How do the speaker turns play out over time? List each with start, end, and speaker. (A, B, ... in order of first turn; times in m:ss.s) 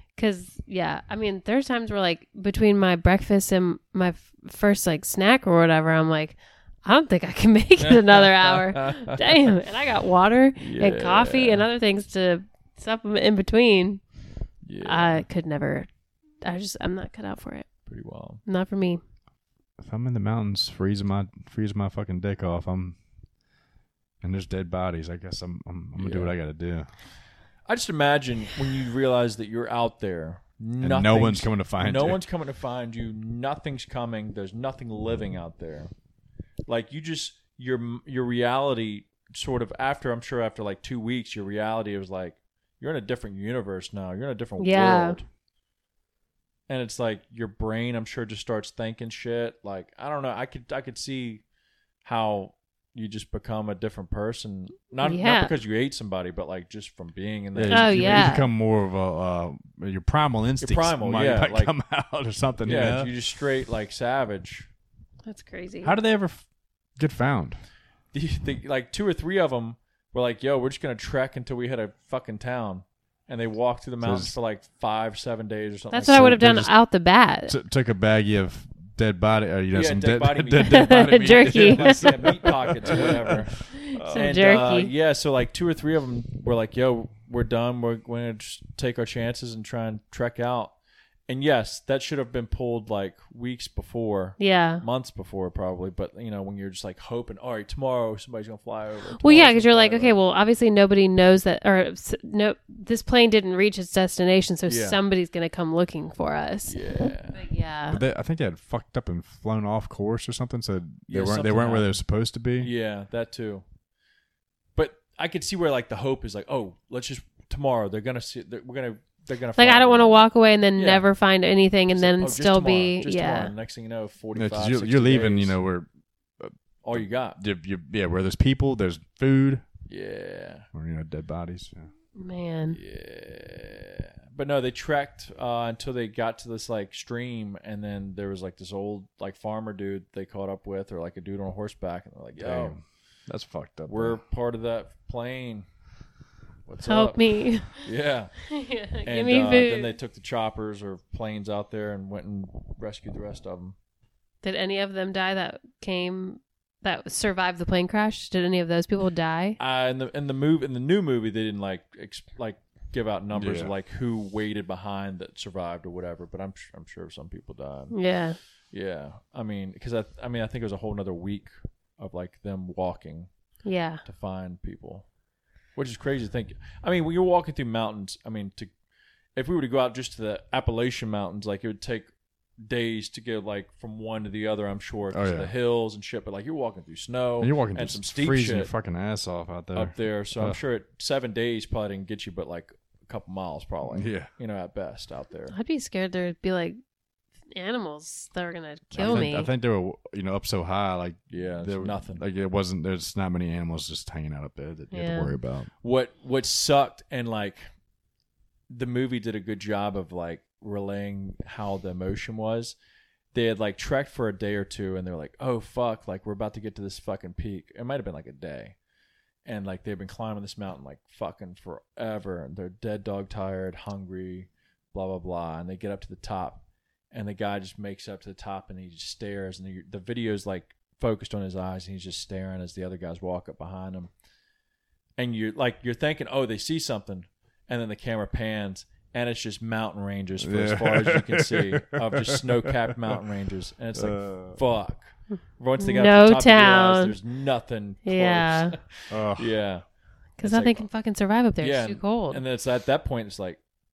0:00.2-0:14.0 A
0:07.8-0:09.2 B
0:10.6-0:11.7 B
0:14.6-0:15.2 B
0:14.8-0:15.9 A
0:16.4-0:17.7 A
0:17.9-0:18.4 B
0:18.4-0:19.0 A
0:19.8-0:23.0 C
0:24.2-0:26.9 C
0:26.0-0:26.3 B
0:27.7-0:35.9 B
0:30.8-0:32.2 C
0:36.7-0:45.2 B
0:44.6-0:45.2 A
0:46.7-0:51.4 B
0:52.0-0:58.4 B
0:55.0-0:55.5 A
0:57.6-1:03.1 C
0:57.7-0:58.4 A
1:00.6-1:01.7 B
1:02.6-1:04.7 B
1:05.2-1:05.9 A
1:05.8-1:06.4 C
1:07.0-1:07.6 C
1:08.1-1:16.3 B
1:14.0-1:14.4 C
1:15.9-1:17.5 A
1:16.0-1:16.7 C
1:17.5-1:24.4 C
1:19.7-1:30.7 B
1:20.6-1:22.4 A
1:23.7-1:24.9 A
1:31.3-1:40.2 B
1:34.4-1:34.8 A
1:39.2-1:46.8 A
1:44.7-1:45.0 B
1:46.7-1:47.4 B
1:47.3-1:48.0 A
1:47.9-1:52.7 C
1:51.1-1:52.0 B
1:52.6-1:53.6 B
1:54.8-2:01.1 B
1:59.6-2:03.5 A
2:01.9-2:05.6 B
2:04.3-2:05.9 C
2:06.4-2:09.6 C
2:06.8-2:07.4 B
2:09.9-2:10.7 B
2:10.7-2:11.9 C
2:12.2-2:12.8 A
2:12.7-2:22.8 B
2:22.4-2:24.2 C
2:23.9-2:25.6 B
2:26.7-2:27.2 B
2:26.8-2:27.8 A
2:27.7-2:28.4 B
2:28.5-2:29.9 A
2:29.0-2:33.7 B
2:34.4-2:39.6 A
2:39.6-2:48.0 B
2:43.3-2:43.7 C
2:47.9-2:48.4 A
2:48.7-2:53.3 B
2:53.6-2:54.0 A
2:54.0-2:55.1 B
2:55.8-2:58.7 B
2:59.4-3:08.7 B
3:05.1-3:05.5 C
3:07.4-3:10.6 C
3:09.7-3:15.6 B
3:13.9-3:14.3 C
3:15.5-3:16.8 A
3:17.5-3:19.5 A
3:18.9-3:19.3 B
3:19.0-3:25.7 C
3:21.3-3:22.2 B
3:24.9-3:25.3 A
3:25.8-3:27.6 B
3:28.7-3:32.7 B
3:33.3-3:38.8 B
3:39.4-3:54.1 B
3:55.2-4:09.8 B
4:00.4-4:02.9 C
4:03.9-4:04.6 C
4:05.8-4:07.1 A
4:08.0-4:08.7 A
4:09.1-4:09.5 C
4:10.4-4:12.4 A
4:10.4-4:10.9 B
4:11.6-4:13.6 B